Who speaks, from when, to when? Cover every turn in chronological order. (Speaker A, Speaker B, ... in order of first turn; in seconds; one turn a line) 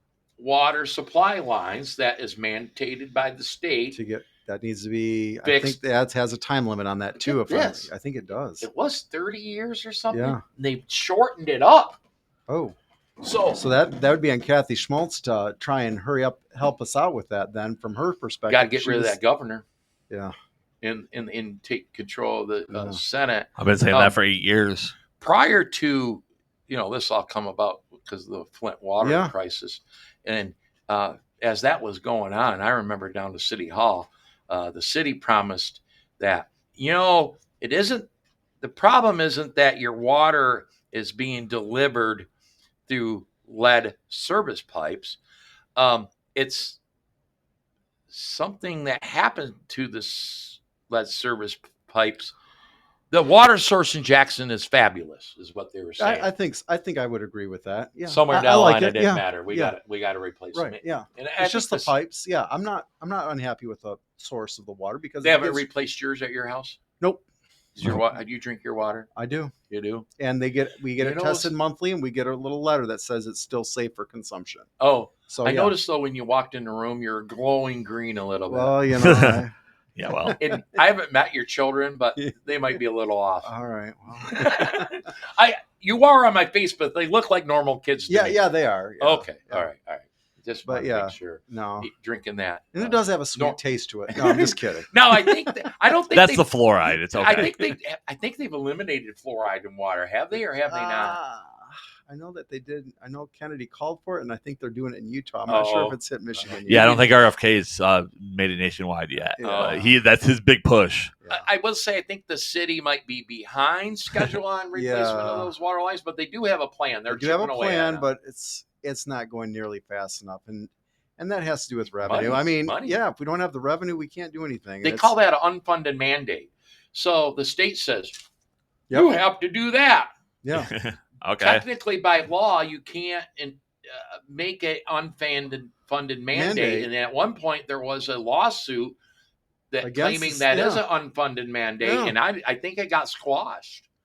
Speaker A: 0.4-4.0
Speaker B: 3.9-8.7
Speaker A: 5.4-5.8
Speaker A: 7.2-7.9
Speaker A: 8.6-12.0
Speaker B: 10.1-10.4
Speaker B: 12.5-12.7
Speaker A: 13.2-13.6
Speaker B: 13.5-19.2
Speaker A: 18.5-19.6
Speaker A: 20.8-24.1
Speaker B: 22.7-23.0
Speaker C: 23.6-24.9
Speaker A: 25.2-38.1
Speaker B: 29.0-29.3
Speaker A: 38.6-42.3
Speaker A: 42.9-45.2
Speaker A: 45.8-46.8
Speaker A: 48.1-52.3
Speaker A: 53.1-56.3
Speaker B: 56.0-59.8
Speaker A: 58.1-61.9
Speaker B: 60.5-65.6
Speaker A: 65.2-66.8
Speaker B: 67.0-67.2
Speaker A: 67.7-69.1
Speaker B: 69.2-69.5
Speaker A: 69.7-70.0
Speaker B: 70.2-74.7
Speaker A: 71.0-71.5
Speaker A: 74.8-78.8
Speaker B: 75.3-75.7
Speaker B: 78.5-79.5
Speaker C: 78.9-79.4
Speaker C: 80.0-80.4
Speaker B: 80.2-80.6
Speaker A: 80.4-83.5
Speaker B: 83.4-85.1
Speaker A: 84.3-88.5
Speaker B: 88.1-89.7
Speaker A: 89.0-96.5
Speaker B: 90.6-91.9
Speaker B: 92.7-95.3
Speaker C: 96.1-97.7
Speaker A: 97.1-101.2
Speaker B: 100.7-106.9
Speaker A: 105.5-107.1
Speaker C: 106.7-111.1
Speaker B: 109.3-109.9
Speaker A: 109.4-109.8
Speaker A: 111.3-118.1
Speaker B: 114.7-115.5
Speaker B: 117.1-125.1
Speaker A: 122.0-123.0
Speaker A: 124.8-128.2
Speaker B: 128.9-129.2
Speaker A: 128.9-130.1
Speaker B: 130.4-130.7
Speaker C: 130.5-131.6
Speaker A: 131.4-139.0
Speaker B: 136.3-136.9
Speaker A: 139.7-143.8
Speaker B: 139.8-140.8
Speaker B: 141.8-142.2